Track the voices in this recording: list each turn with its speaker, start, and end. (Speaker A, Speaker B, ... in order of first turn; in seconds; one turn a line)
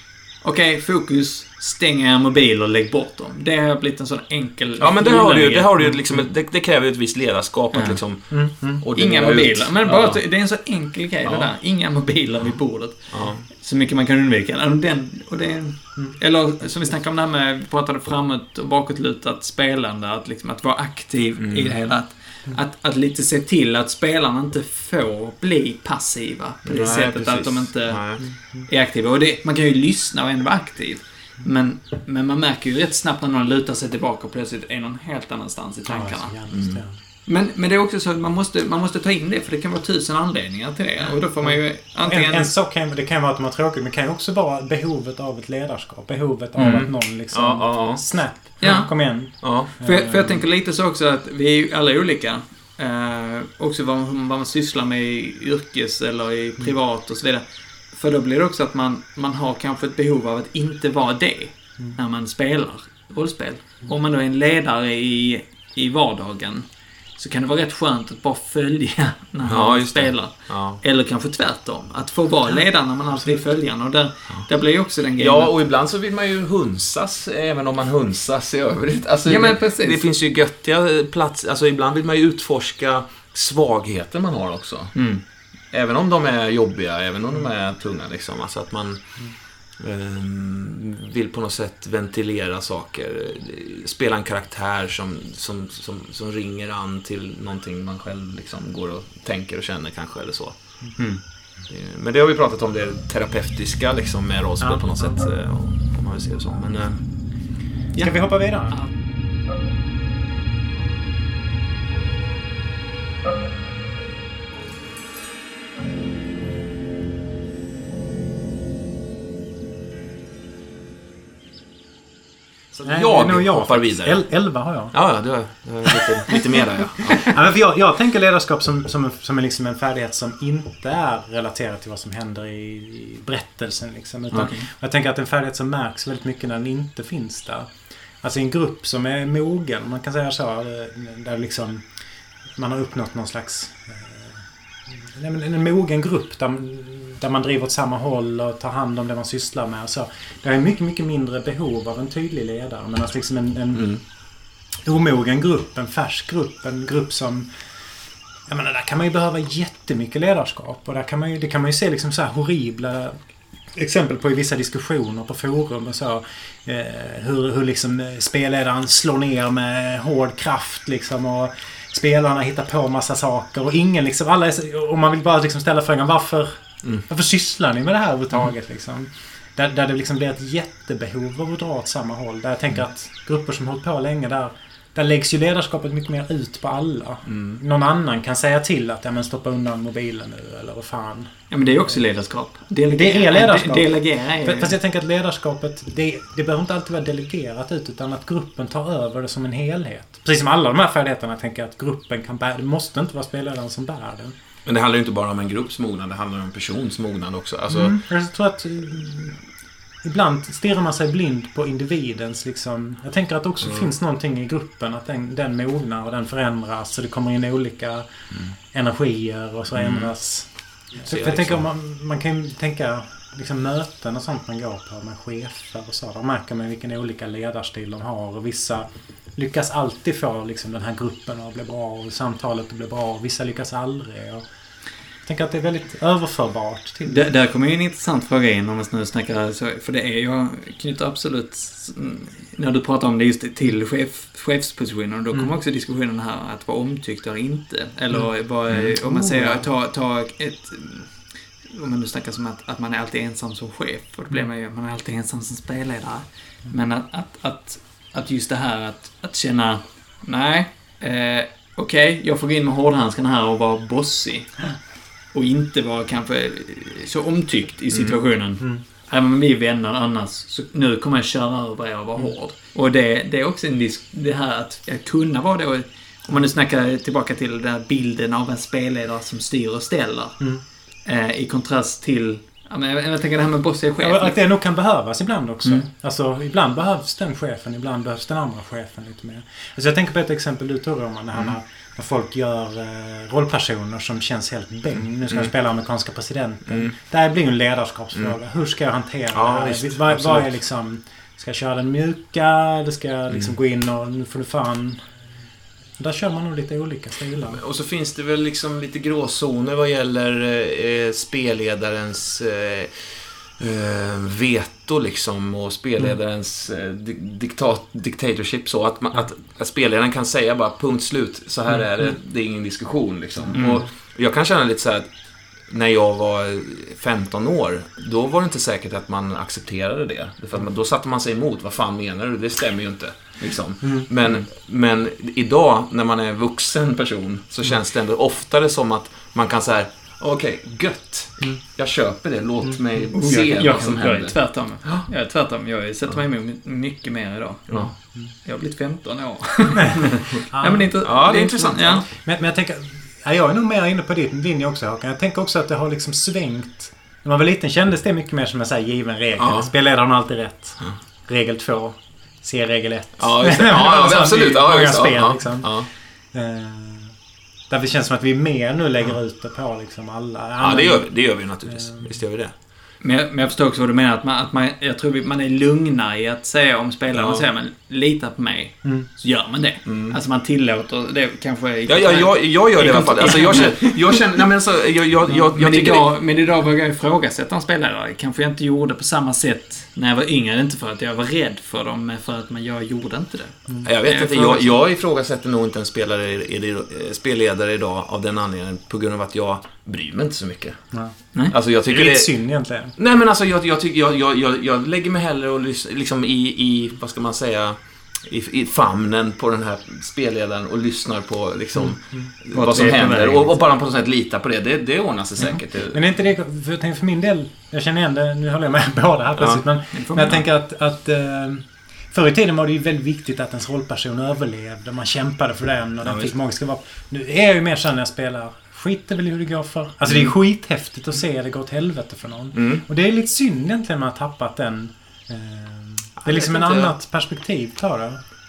Speaker A: 0.4-5.7
Speaker B: 4.8-10.3
Speaker A: 7.7-8.0
Speaker C: 8.3-8.8
Speaker A: 8.9-36.3
Speaker B: 11.2-11.5
Speaker B: 13.1-13.4
Speaker C: 15.9-16.9
Speaker B: 21.4-21.7
Speaker B: 26.6-28.2
Speaker C: 28.2-28.7
Speaker C: 35.9-37.0
Speaker B: 36.5-36.8
Speaker A: 37.2-42.5
Speaker C: 41.4-50.4
Speaker A: 46.5-46.9
Speaker B: 46.6-48.8
Speaker A: 48.6-66.6
Speaker B: 49.4-49.7
Speaker A: 67.2-75.5
Speaker B: 69.4-70.8
Speaker C: 73.2-73.4
Speaker B: 75.2-85.0
Speaker A: 79.2-80.0
Speaker A: 84.9-85.2
Speaker B: 85.7-101.0
Speaker A: 101.0-101.2
Speaker B: 101.7-107.0
Speaker C: 104.6-105.2
Speaker A: 107.9-108.9
Speaker C: 108.0-108.8
Speaker B: 122.7-124.3
Speaker C: 122.8-125.0
Speaker B: 124.9-127.4
Speaker C: 125.9-126.4
Speaker C: 127.2-142.0
Speaker A: 134.3-134.7
Speaker C: 142.5-154.1
Speaker B: 153.7-154.0
Speaker C: 154.8-157.5
Speaker C: 158.4-192.0
Speaker B: 187.2-187.6
Speaker A: 191.5-194.8
Speaker C: 192.9-204.3
Speaker B: 204.6-208.0
Speaker C: 207.7-209.5
Speaker C: 210.0-218.1
Speaker C: 218.6-234.5
Speaker B: 219.7-220.1
Speaker B: 220.9-221.6
Speaker C: 235.2-237.3
Speaker A: 237.0-264.6
Speaker B: 248.7-248.9
Speaker C: 249.0-249.7
Speaker A: 265.3-280.4
Speaker B: 267.9-268.2
Speaker A: 281.0-284.4
Speaker C: 284.0-305.1
Speaker B: 295.0-295.5
Speaker B: 299.3-300.5
Speaker C: 306.0-307.6
Speaker B: 307.5-325.1
Speaker A: 323.5-323.9
Speaker B: 325.6-345.1
Speaker C: 333.8-334.1
Speaker A: 343.1-352.0
Speaker C: 343.6-344.0
Speaker B: 347.7-347.9
Speaker C: 350.5-350.9
Speaker B: 351.0-352.1
Speaker C: 352.1-367.1
Speaker B: 359.4-359.7
Speaker B: 363.2-365.9
Speaker C: 367.7-372.1
Speaker B: 370.6-372.5
Speaker A: 373.0-384.2
Speaker B: 377.1-377.4
Speaker B: 379.8-380.2
Speaker B: 381.9-386.1
Speaker A: 385.5-394.8
Speaker B: 393.8-400.9
Speaker B: 401.5-402.4
Speaker C: 401.9-402.9
Speaker B: 402.9-416.0
Speaker C: 411.8-412.3
Speaker A: 412.5-413.5
Speaker C: 415.4-438.2
Speaker A: 419.9-420.4
Speaker B: 426.0-426.3
Speaker B: 430.1-430.3
Speaker B: 432.5-432.8
Speaker B: 436.2-436.9